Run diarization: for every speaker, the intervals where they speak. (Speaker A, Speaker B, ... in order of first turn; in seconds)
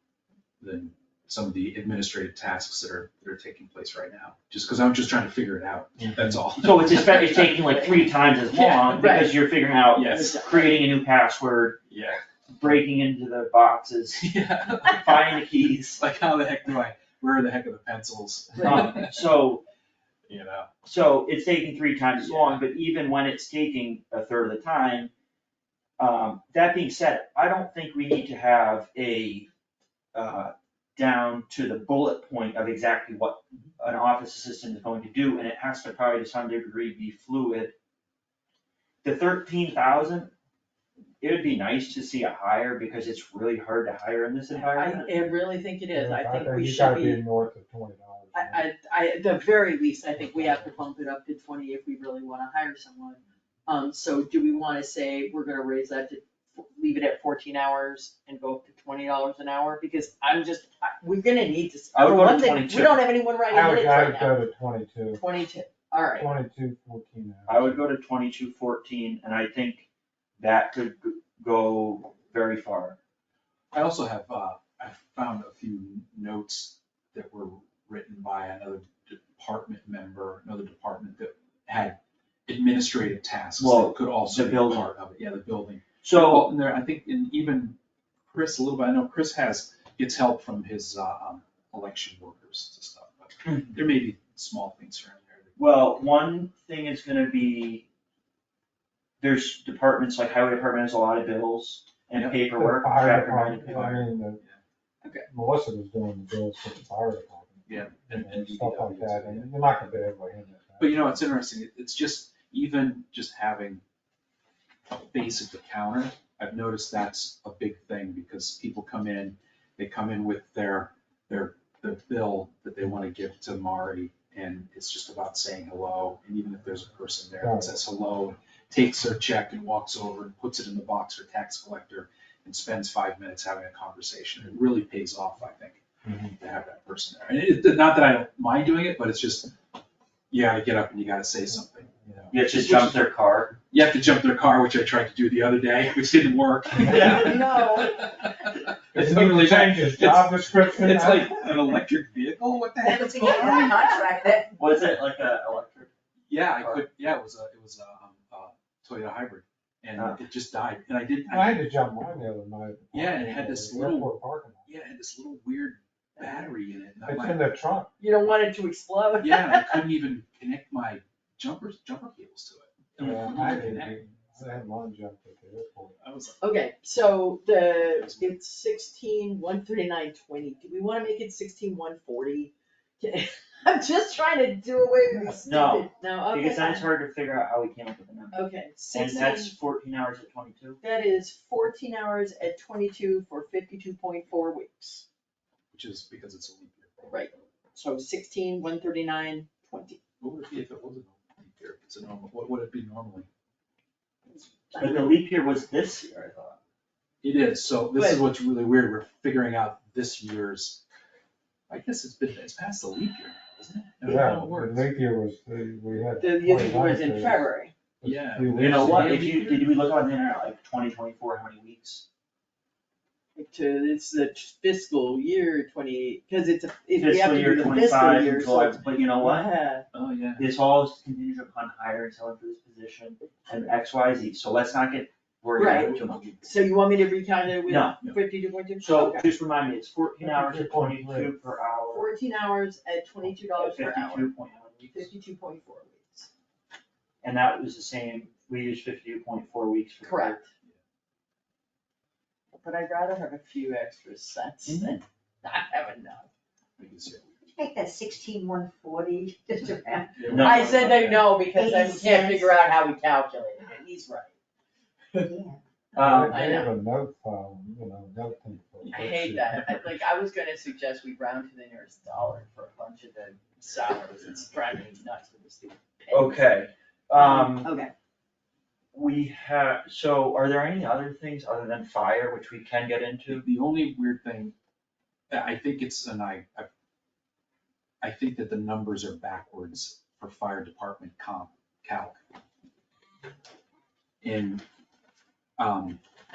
Speaker A: 0.6-7.6, 8.5-9.3, 9.9-10.4, 11.9-12.2, 14.2-15.4, 16.0-19.2, 20.3-20.7, 22.2-22.6, 73.7-95.6, 103.6-104.6, 107.7-109.9, 110.8-113.8, 114.9-139.5, 140.3-143.1, 143.7-154.0, 156.3-161.6, 162.9-164.1, 164.7-167.6, 169.2-174.6, 176.0-176.5, 177.9-178.3, 185.1-185.4, 195.7-196.9, 200.2-203.3, 207.2-210.8, 211.7-214.9, 218.0-219.8, 229.9-230.5, 254.7-254.9, 256.8-257.3, 260.2-261.4, 268.8-270.0, 283.3-284.5, 285.3-286.7, 288.0-292.2, 294.2-294.6, 295.6-296.0
Speaker B: 6.0-6.5, 45.9-48.7, 50.3-50.7, 63.5-65.2, 66.1-67.9, 102.5-104.4, 105.3-111.3, 127.4-127.7, 136.0-136.3, 148.9-151.7, 161.3-164.7, 167.1-167.9, 173.0-176.0, 214.0-217.5, 218.0-219.2, 240.2-241.4, 266.0-269.5
Speaker C: 6.6-11.8, 12.5-14.3, 14.9-16.0, 18.6-19.6, 20.9-25.1, 26.0-29.5, 30.1-37.8, 39.0-40.3, 41.2-45.1, 61.9-63.1, 67.5-69.9, 70.4-73.0, 83.6-84.9, 86.0-86.5, 93.5-93.7, 95.6-97.9, 99.2-104.0, 142.3-143.6, 146.9-147.2, 154.6-155.9, 156.6-156.8, 160.0-160.2, 185.4-190.8, 204.7-206.6, 218.6-222.1, 227.0-229.5, 230.4-236.4, 237.7-238.0, 238.8-242.1, 243.6-245.1, 247.2-250.4, 260.2-260.7, 266.0-266.4, 276.1-277.7, 278.9-283.5
Speaker D: 7.7-8.1, 9.0-9.6, 10.1-10.8, 44.5-47.2, 48.3-64.4, 65.1-66.3, 146.9-148.2, 166.2-166.5, 168.0-169.8, 176.4-186.9, 188.3-189.5, 190.8-195.1, 197.1-200.0, 204.3-205.2, 207.9-208.2, 216.2-217.7, 223.3-229.8, 235.6-239.3, 241.9-244.3, 244.9-246.3, 250.0-250.4, 252.6-256.3, 260.4-264.4, 266.3-266.8, 268.9-276.4, 277.1-277.9
Speaker E: 152.8-154.8, 257.5-260.4, 261.4-262.6, 265.2-265.6